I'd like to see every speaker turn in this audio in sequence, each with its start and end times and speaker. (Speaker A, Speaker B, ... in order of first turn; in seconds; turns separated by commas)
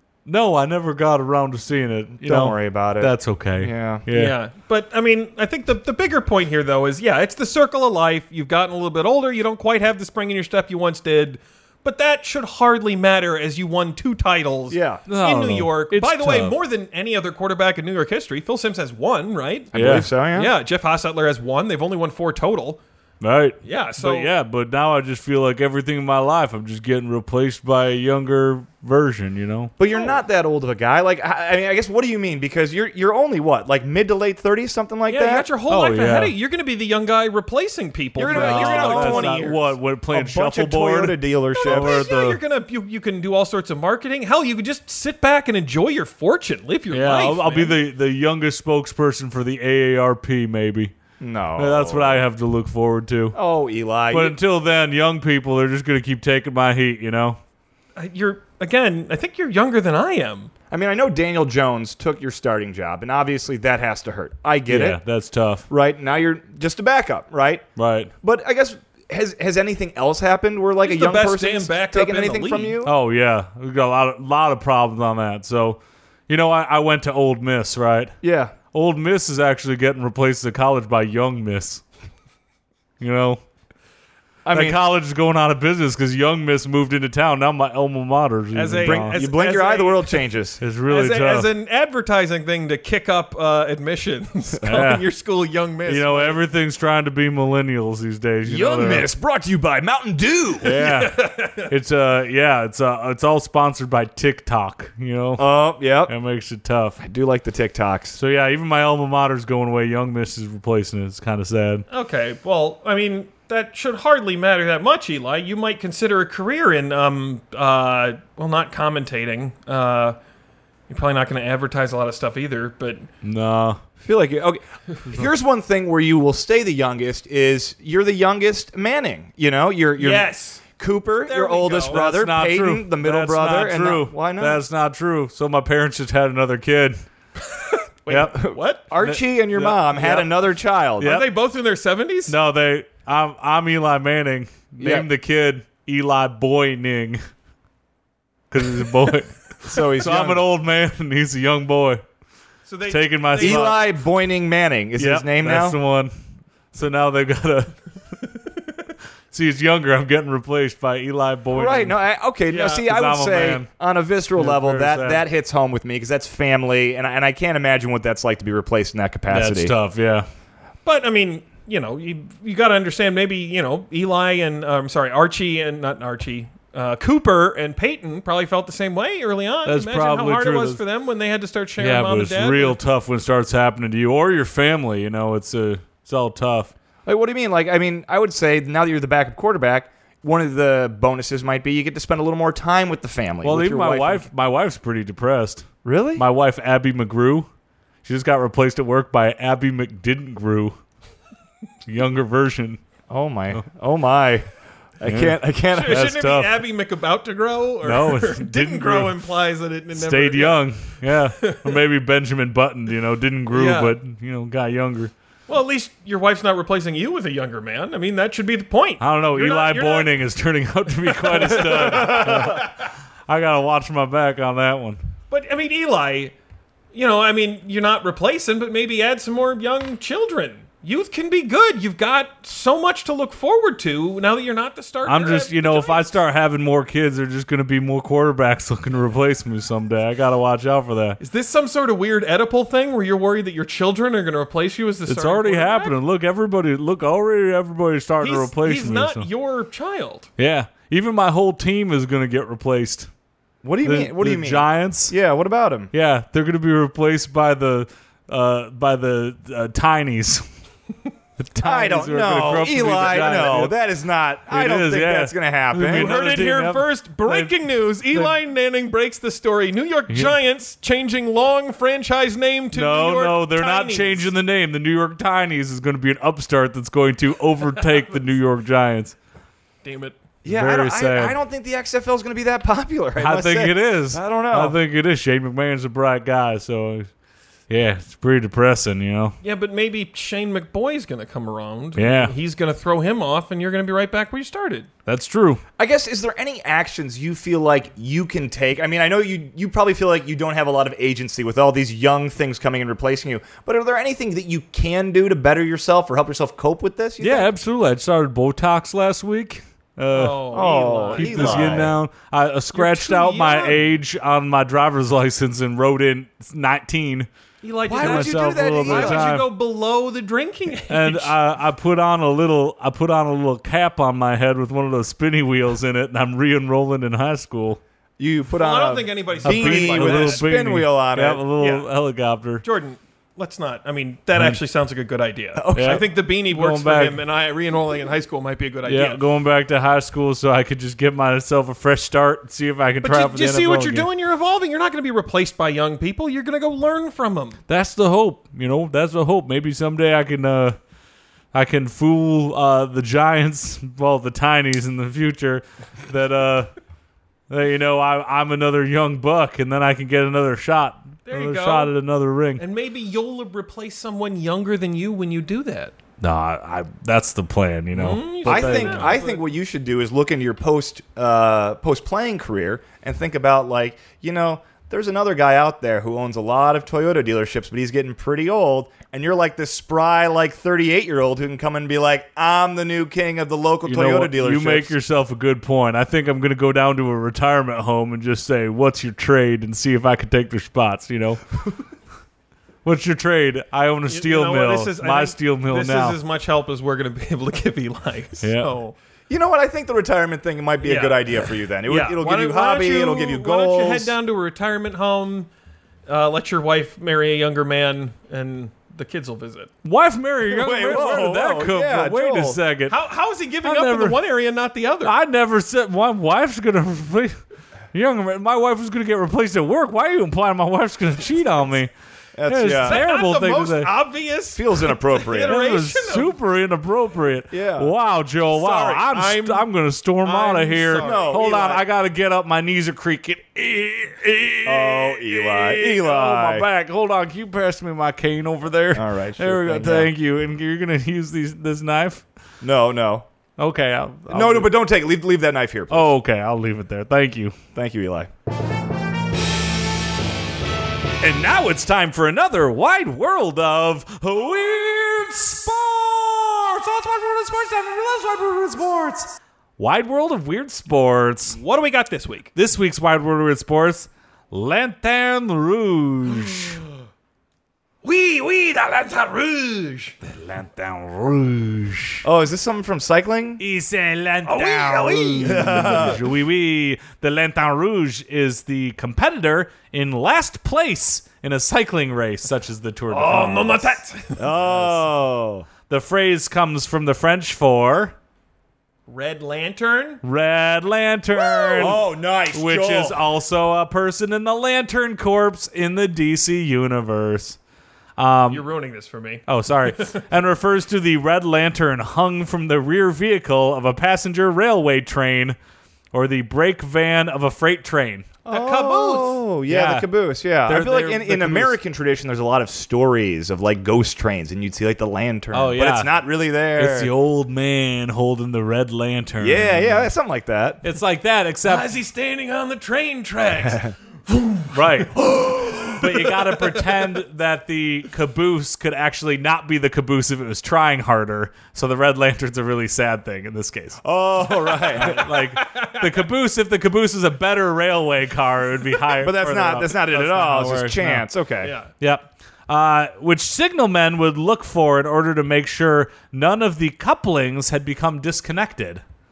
Speaker A: 0.3-4.4, Speaker B: 2.2-4.0, Speaker C: 4.1-22.8, Speaker B: 14.7-15.0, Speaker A: 15.1-16.6, Speaker B: 19.7-20.6, Speaker A: 19.7-20.1, Speaker A: 23.2-29.7, Speaker C: 23.6-24.3, Speaker B: 29.8-35.5, Speaker C: 35.1-39.6, Speaker A: 35.7-36.3, Speaker B: 38.2-42.1, Speaker A: 38.3-42.4, Speaker C: 41.5-47.8, Speaker A: 46.9-50.9, Speaker B: 51.2-52.2, Speaker A: 51.6-53.4, Speaker B: 53.4-54.4, Speaker A: 54.1-57.4, Speaker C: 58.0-60.5, Speaker B: 60.7-65.0, Speaker A: 64.7-65.7, Speaker B: 65.7-67.7, Speaker A: 67.8-68.1, Speaker B: 68.2-72.9, Speaker C: 70.8-72.8, Speaker A: 72.8-78.1, Speaker B: 78.2-78.6, Speaker A: 78.7-81.8, Speaker A: 83.0-83.4, Speaker B: 84.5-84.8, Speaker A: 84.5-89.2, Speaker C: 88.5-90.2, Speaker B: 88.8-90.6, Speaker A: 90.6-91.5, Speaker C: 90.9-96.4, Speaker A: 94.6-95.1, Speaker A: 95.9-99.1, Speaker B: 98.5-100.7, Speaker C: 100.6-101.7, Speaker A: 100.6-107.0, Speaker B: 105.4-106.1, Speaker B: 107.0-108.2, Speaker A: 108.2-111.8, Speaker C: 111.9-120.2, Speaker C: 120.9-123.1, Speaker A: 123.2-123.8, Speaker B: 124.0-134.6, Speaker C: 130.0-130.6, Speaker C: 131.2-132.1, Speaker A: 131.9-137.0, Speaker C: 137.4-138.9, Speaker B: 138.1-141.2, Speaker A: 139.0-140.2, Speaker C: 140.0-140.2, Speaker A: 141.0-141.3, Speaker C: 141.0-142.4, Speaker A: 142.3-147.2, Speaker B: 144.8-145.1, Speaker A: 148.5-152.0, Speaker B: 149.7-150.4, Speaker C: 152.7-153.8, Speaker A: 152.9-153.8, Speaker B: 153.4-155.8, Speaker A: 155.0-156.1, Speaker A: 156.7-157.8, Speaker A: 159.3-161.9, Speaker B: 161.5-169.7, Speaker C: 162.5-162.8, Speaker A: 162.8-163.7, Speaker A: 164.3-165.2, Speaker A: 169.3-170.3, Speaker C: 170.8-182.8, Speaker A: 179.7-180.8, Speaker A: 181.8-186.7, Speaker B: 187.1-194.3, Speaker A: 193.4-197.5, Speaker B: 195.8-196.2, Speaker A: 198.0-200.8, Speaker A: 201.9-202.8, Speaker B: 203.1-204.5, Speaker B: 205.0-206.1, Speaker A: 205.1-206.6, Speaker C: 205.7-211.7, Speaker A: 207.8-209.2, Speaker A: 209.9-215.1, Speaker C: 213.5-214.0, Speaker C: 215.5-220.1, Speaker A: 219.0-225.0, Speaker C: 221.1-222.7, Speaker B: 222.0-222.4, Speaker C: 225.3-226.3, Speaker C: 226.9-236.1, Speaker A: 235.1-241.2, Speaker C: 241.2-246.0, Speaker A: 245.1-249.3, Speaker C: 248.2-250.3, Speaker A: 250.4-253.1, Speaker B: 253.6-255.9, Speaker A: 253.8-255.1, Speaker A: 255.9-260.4, Speaker A: 261.4-263.8, Speaker B: 261.6-266.1, Speaker A: 264.5-267.6, Speaker C: 265.8-274.3, Speaker A: 268.1-268.4, Speaker A: 270.1-270.4, Speaker A: 272.7-279.1, Speaker C: 279.8-280.2, Speaker B: 280.4-284.8, Speaker A: 280.5-281.4, Speaker A: 283.2-287.1, Speaker A: 287.7-289.4, Speaker C: 289.4-294.9, Speaker A: 292.0-292.3, Speaker A: 295.1-295.6, Speaker B: 295.8-307.5, Speaker A: 307.2-317.3, Speaker C: 310.1-311.9, Speaker B: 310.5-312.0, Speaker C: 312.7-313.8, Speaker C: 317.6-321.4, Speaker B: 317.9-319.3, Speaker A: 317.9-319.5, Speaker A: 320.9-327.8, Speaker B: 328.2-331.4, Speaker C: 328.6-330.4, Speaker A: 329.4-332.6, Speaker C: 331.6-331.9, Speaker C: 332.6-339.2, Speaker B: 335.6-336.1, Speaker A: 335.8-337.2, Speaker A: 338.9-344.1, Speaker C: 343.0-347.6, Speaker A: 347.7-350.8, Speaker A: 351.5-356.7, Speaker A: 357.5-362.6, Speaker C: 361.3-361.9, Speaker C: 362.6-365.9, Speaker A: 366.2-369.2, Speaker C: 367.9-369.4, Speaker B: 368.4-385.0, Speaker A: 383.9-391.4, Speaker A: 392.9-396.2, Speaker C: 394.1-399.0, Speaker A: 398.4-398.7, Speaker B: 399.3-404.1, Speaker C: 400.8-405.5, Speaker C: 406.1-409.7, Speaker A: 409.8-413.0, Speaker B: 410.5-412.6, Speaker C: 412.9-415.1, Speaker A: 413.6-414.2, Speaker A: 415.0-417.4, Speaker A: 417.9-421.9, Speaker B: 422.4-423.0, Speaker A: 422.5-423.9, Speaker C: 422.8-426.4, Speaker B: 424.6-425.6, Speaker A: 425.4-442.2, Speaker B: 427.5-427.9, Speaker C: 428.5-429.7, Speaker C: 430.2-431.3, Speaker B: 431.0-431.8, Speaker B: 434.6-436.7, Speaker B: 438.9-440.1, Speaker B: 442.6-443.3, Speaker A: 443.6-444.7, Speaker B: 444.3-446.1, Speaker A: 445.9-447.6, Speaker B: 447.8-448.3, Speaker A: 451.2-461.6, Speaker C: 461.5-462.5, Speaker A: 462.6-466.8, Speaker C: 468.0-470.2, Speaker A: 470.3-472.2, Speaker B: 472.2-473.6, Speaker A: 473.6-484.0, Speaker C: 474.4-476.2, Speaker B: 475.4-476.2, Speaker C: 483.1-484.6, Speaker B: 484.4-485.7, Speaker A: 485.9-488.1, Speaker C: 489.1-490.2, Speaker A: 490.2-497.6, Speaker C: 491.4-492.0, Speaker B: 491.8-493.2, Speaker A: 498.2-498.7, Speaker C: 498.5-500.2, Speaker A: 499.5-505.6, Speaker A: 506.1-508.3, Speaker B: 508.4-517.1, Speaker C: 508.5-509.4, Speaker A: 509.7-510.1, Speaker A: 510.6-511.8, Speaker A: 515.5-516.1, Speaker A: 516.8-520.1, Speaker B: 519.4-520.8, Speaker A: 520.8-521.9, Speaker C: 521.6-526.9, Speaker A: 524.7-534.0, Speaker B: 534.0-535.2, Speaker C: 534.7-536.1, Speaker A: 534.9-541.3, Speaker B: 539.2-541.7, Speaker C: 541.6-541.9, Speaker A: 542.0-549.0